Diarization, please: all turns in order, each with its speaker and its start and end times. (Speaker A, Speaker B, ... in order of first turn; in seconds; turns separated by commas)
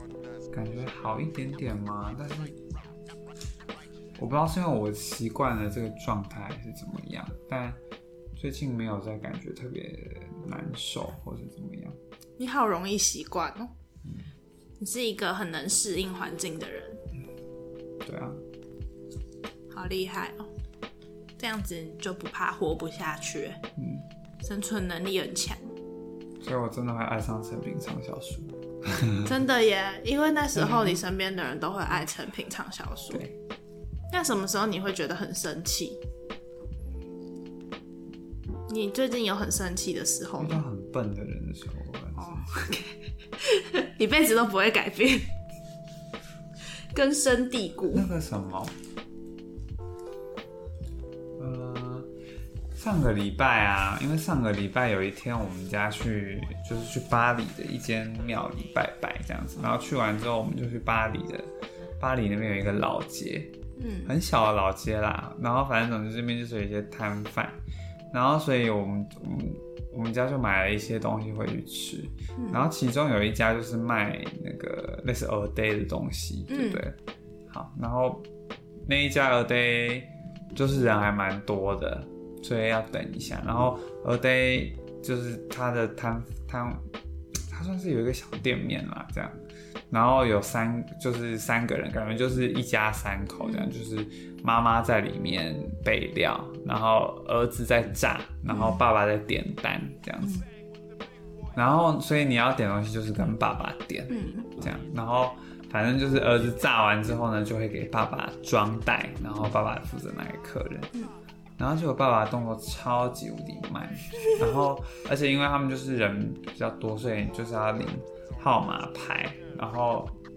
Speaker A: 0.5-2.6, Speaker A: 4.2-7.8, Speaker A: 8.4-12.0, Speaker B: 12.4-13.7, Speaker B: 14.8-17.0, Speaker A: 18.0-18.4, Speaker B: 19.7-20.5, Speaker B: 21.4-23.6, Speaker A: 23.8-24.1, Speaker B: 24.4-25.7, Speaker A: 26.4-29.4, Speaker B: 29.2-33.2, Speaker A: 30.6-31.0, Speaker B: 34.1-36.0, Speaker B: 38.7-40.6, Speaker A: 40.4-42.8, Speaker B: 42.2-45.3, Speaker B: 46.9-48.1, Speaker A: 47.9-48.8, Speaker A: 51.4-52.1, Speaker A: 52.8-63.5, Speaker B: 63.8-64.1, Speaker A: 64.1-67.6, Speaker A: 68.1-77.0, Speaker B: 72.4-72.7, Speaker B: 76.5-76.8, Speaker A: 77.5-78.3, Speaker A: 78.8-86.9, Speaker A: 87.5-100.4, Speaker B: 93.4-93.7, Speaker B: 98.5-98.8, Speaker A: 101.5-110.9, Speaker B: 104.1-104.5, Speaker A: 111.6-120.2